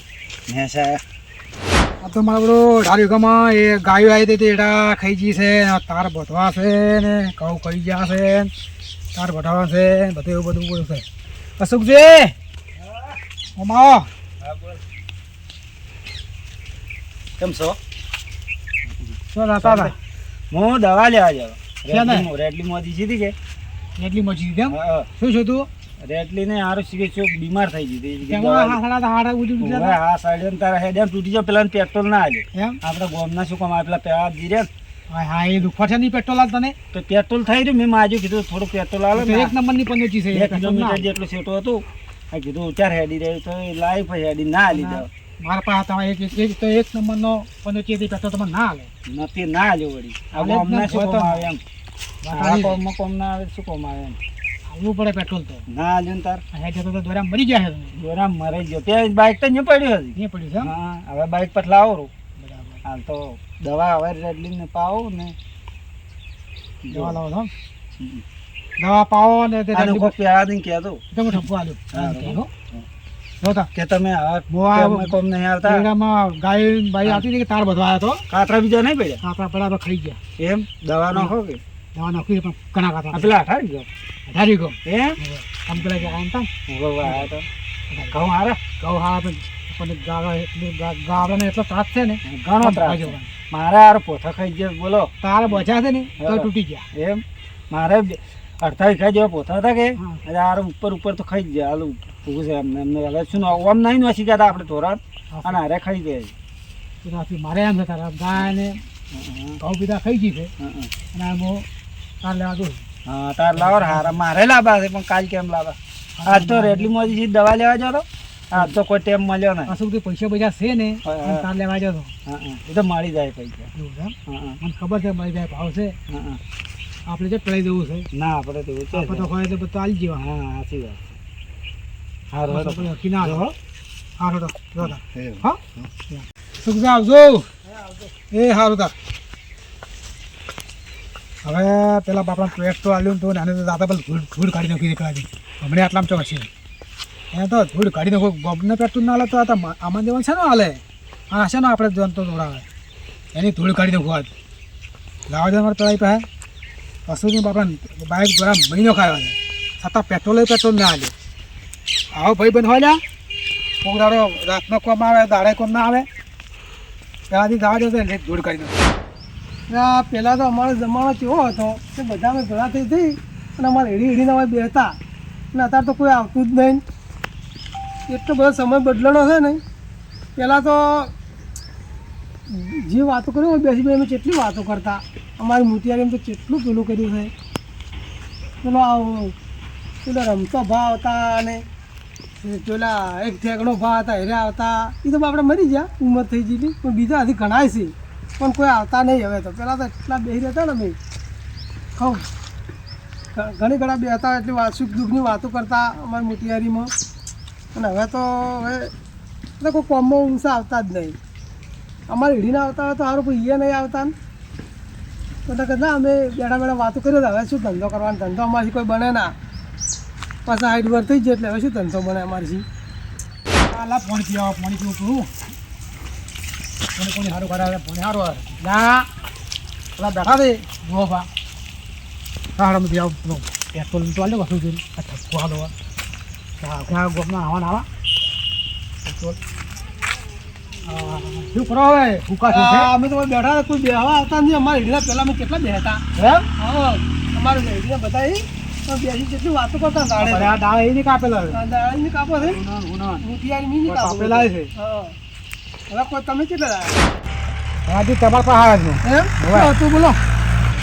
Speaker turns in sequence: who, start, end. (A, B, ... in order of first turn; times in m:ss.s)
0:00.5-0:01.0 A
0:02.0-0:08.5 B
0:09.1-0:11.0 B
0:11.6-0:12.3 B
0:12.8-0:13.2 A
0:13.6-0:14.1 B
0:14.4-0:14.8 A
0:17.4-0:17.8 A
0:19.0-0:19.9 A
0:19.3-0:20.0 B
0:20.5-0:23.4 A
0:21.9-0:22.3 B
0:24.0-0:25.7 B
0:24.7-0:25.1 A
0:26.0-0:28.8 A
0:28.3-0:30.0 B
0:29.6-0:34.7 A
0:32.5-0:32.8 B
0:35.1-0:36.8 B
0:36.9-0:39.5 A
0:39.1-0:41.1 B
0:40.3-0:45.1 A
0:44.7-0:48.9 B
0:49.1-0:51.6 A
0:50.3-0:51.5 B
0:52.2-0:52.8 B
0:52.3-0:54.2 A
0:54.7-0:55.6 B
0:55.7-0:56.4 A
0:56.5-0:57.9 B
0:57.9-1:02.1 A
1:00.2-1:00.7 B
1:02.4-1:02.8 B
1:02.8-1:05.4 A
1:06.8-1:07.2 A
1:06.9-1:07.5 B
1:08.0-1:08.2 A
1:08.8-1:10.1 B
1:09.7-1:11.4 A
1:11.1-1:12.5 B
1:11.9-1:12.4 A
1:13.4-1:13.7 B
1:13.7-1:15.9 A
1:14.5-1:18.2 B
1:18.3-1:19.2 A
1:19.2-1:20.2 B
1:20.4-1:21.6 A
1:22.0-1:23.3 B
1:23.1-1:23.9 A
1:24.3-1:26.5 B
1:24.8-1:25.2 A
1:25.8-1:26.2 A
1:26.7-1:27.5 A
1:27.0-1:27.3 B
1:28.1-1:28.6 A
1:28.8-1:33.3 B
1:32.2-1:35.7 A
1:35.2-1:36.8 B
1:36.2-1:46.3 A
1:45.3-1:45.6 B
1:47.0-1:48.8 B
1:49.1-1:49.6 A
1:49.6-1:50.5 B
1:50.6-1:50.9 A
1:51.1-1:51.7 B
1:52.2-1:52.8 B
1:53.1-1:59.8 A
1:53.6-1:54.2 B
1:56.2-1:57.1 B
1:59.7-2:02.1 B
2:01.0-2:01.5 A
2:02.3-2:03.7 A
2:03.7-2:06.0 B
2:04.3-2:04.6 A
2:06.1-2:06.4 A
2:07.1-2:08.1 B
2:08.1-2:09.3 A
2:08.9-2:10.2 B
2:10.2-2:11.2 A
2:12.3-2:13.4 A
2:12.5-2:13.5 B
2:14.2-2:17.5 B
2:14.8-2:15.9 A
2:18.2-2:18.9 B
2:21.4-2:26.5 B
2:27.3-2:32.6 B
2:33.3-2:34.3 B
2:35.3-2:36.3 B
2:37.1-2:41.1 B
2:42.1-2:43.0 B
2:43.8-2:46.1 B
2:47.3-2:48.8 B
2:49.7-2:55.0 C
2:55.5-2:56.8 C
2:58.1-2:59.6 C
3:00.4-3:01.1 C
3:02.5-3:07.3 C
3:08.6-3:09.3 C
3:10.0-3:11.6 C
3:12.4-3:21.0 C
3:22.0-3:22.3 C
3:23.4-3:26.9 C
3:27.8-3:28.9 C
3:29.6-3:31.2 C
3:32.1-3:34.1 C
3:35.5-3:39.3 C
3:40.5-3:42.6 C
3:43.7-3:45.3 B
3:47.0-3:49.1 B
3:50.0-3:51.3 B
3:52.6-3:55.7 B
3:56.6-3:57.9 B
3:59.0-3:59.4 B
4:00.8-4:02.9 B
4:02.5-4:06.0 C
4:06.2-4:06.5 B
4:06.6-4:10.5 C
4:10.2-4:11.6 B
4:11.5-4:12.6 C
4:12.4-4:13.3 B
4:13.2-4:15.1 C
4:13.9-4:14.7 B
4:15.9-4:17.0 C
4:17.9-4:19.7 B
4:19.0-4:20.2 C